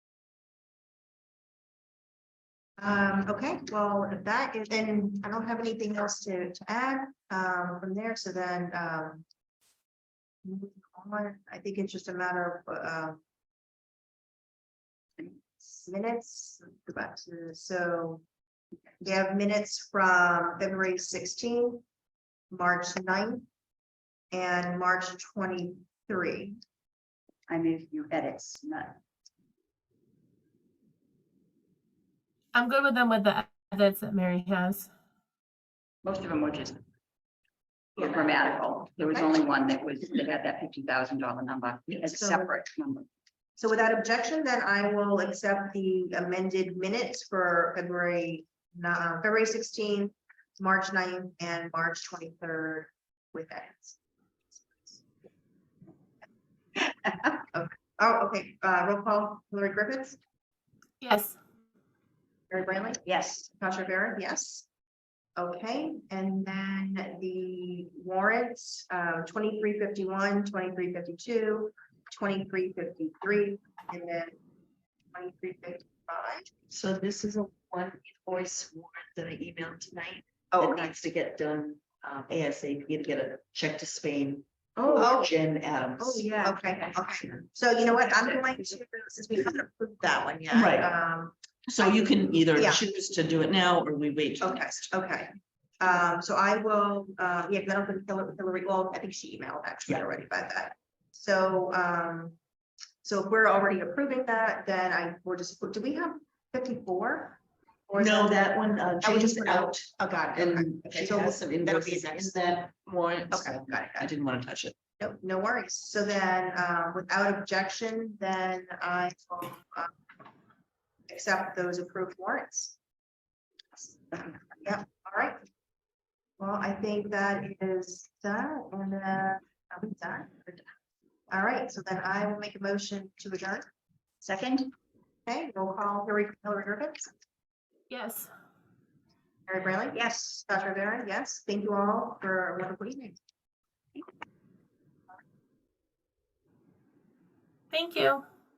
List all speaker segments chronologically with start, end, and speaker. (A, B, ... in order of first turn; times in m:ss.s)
0:02.8-0:09.3 A
0:10.4-0:13.2 A
0:15.2-0:15.8 B
0:15.9-0:18.2 A
0:19.0-0:21.8 A
0:22.5-0:23.5 A
0:24.3-0:26.6 A
0:27.5-0:29.0 B
0:32.5-0:34.9 C
0:36.0-0:36.8 B
0:38.0-0:43.1 B
0:39.1-0:39.4 A
0:42.0-0:42.6 A
0:43.6-0:54.0 A
0:54.6-0:55.0 A
0:57.5-1:00.2 A
1:01.0-1:01.4 C
1:02.5-1:04.7 A
1:03.1-1:03.5 B
1:05.4-1:14.4 A
1:15.1-1:16.5 A
1:16.7-1:26.4 D
1:20.5-1:20.9 A
1:24.9-1:25.4 A
1:26.0-1:32.8 A
1:26.2-1:26.6 B
1:30.5-1:30.9 D
1:31.7-1:34.8 D
1:34.4-1:42.4 A
1:43.0-1:52.4 A
1:48.0-1:54.8 D
1:53.3-1:54.1 A
1:55.0-1:59.9 A
2:01.1-2:02.8 A
2:04.1-2:04.4 B
2:04.6-2:05.4 A
2:06.4-2:10.7 A
2:11.3-2:13.7 A
2:14.2-2:14.7 B
2:15.3-2:17.1 A
2:17.9-2:18.3 C
2:19.5-2:23.2 A
2:19.9-2:20.4 B
2:27.7-2:28.2 C